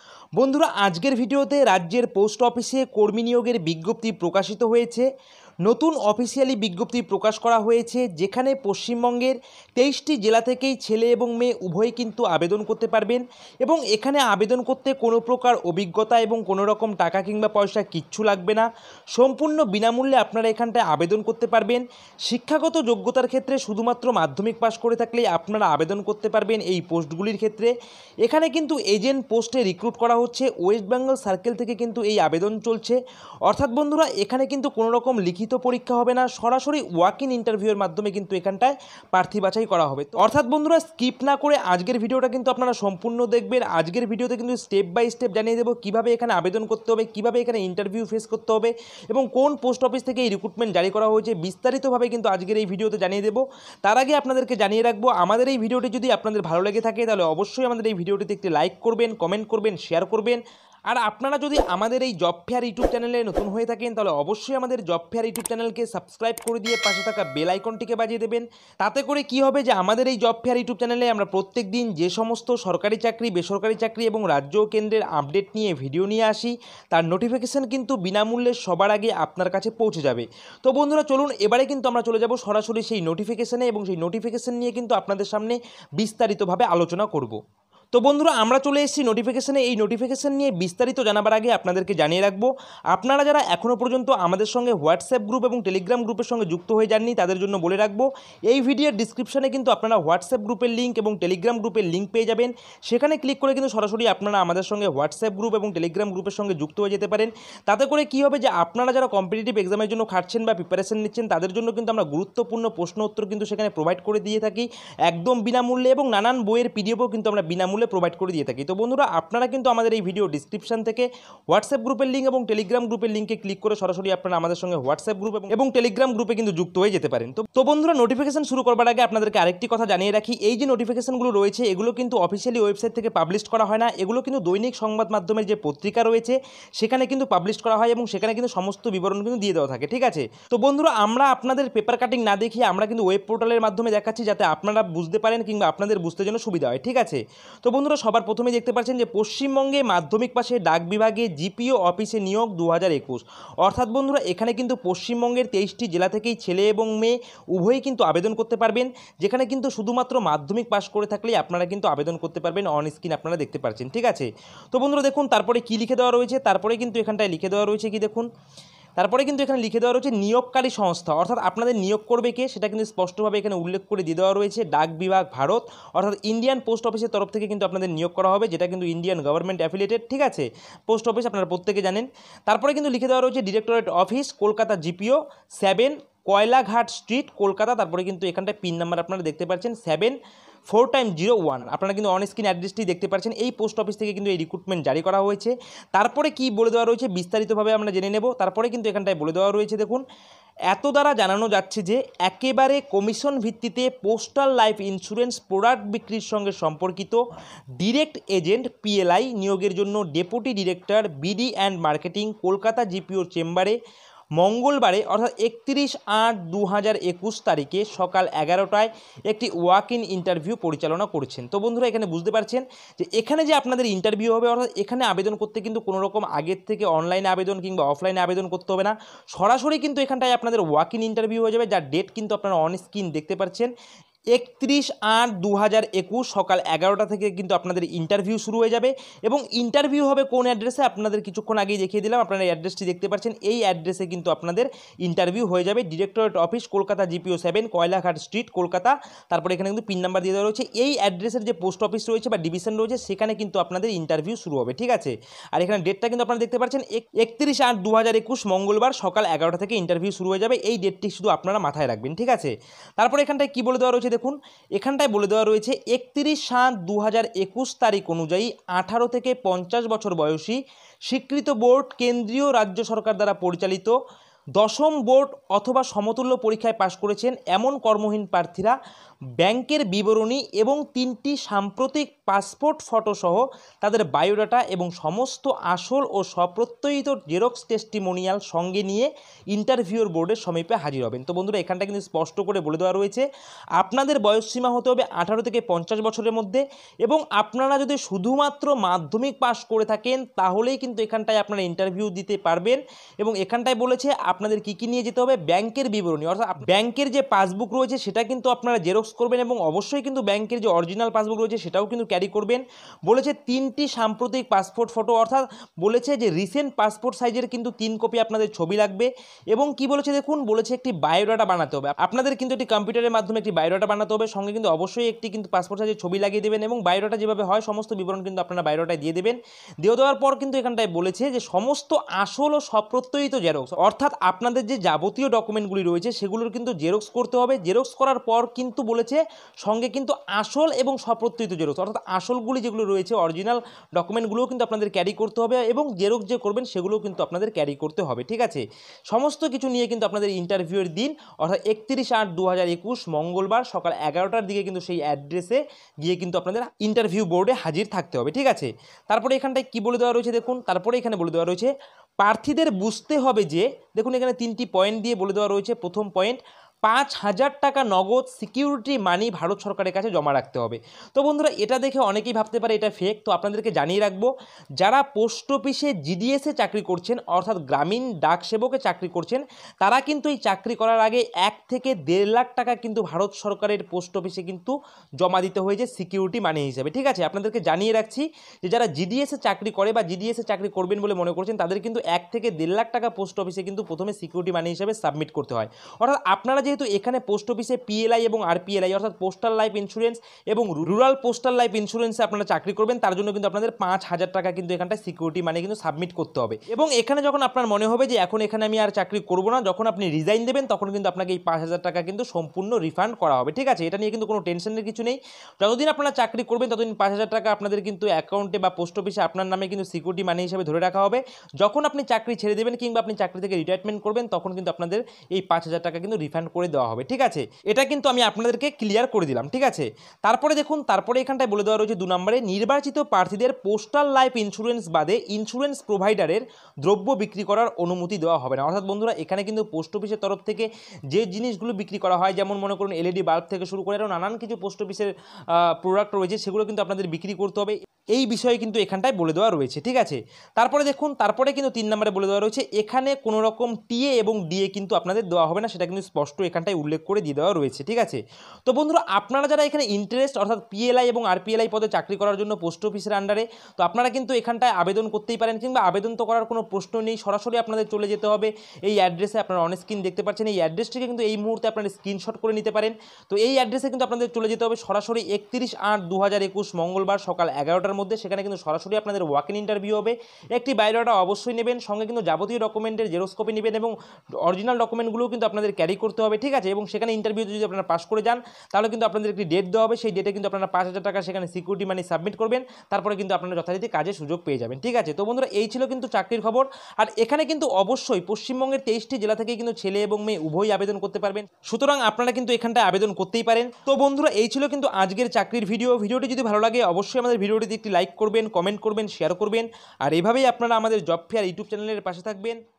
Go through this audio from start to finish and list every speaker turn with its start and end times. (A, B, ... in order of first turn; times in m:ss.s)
0:00.4-0:05.1 A
0:05.7-0:27.7 A
0:28.2-1:27.4 A
1:27.9-2:48.3 A
2:49.0-3:10.2 A
3:10.7-3:20.0 A
3:20.7-3:27.2 A
3:27.8-3:33.8 A
3:34.4-3:53.7 A
3:54.3-4:33.9 A
4:34.6-4:38.8 A
4:39.4-4:53.2 A
4:53.8-6:01.7 A
6:02.2-6:14.3 A
6:14.8-8:32.6 A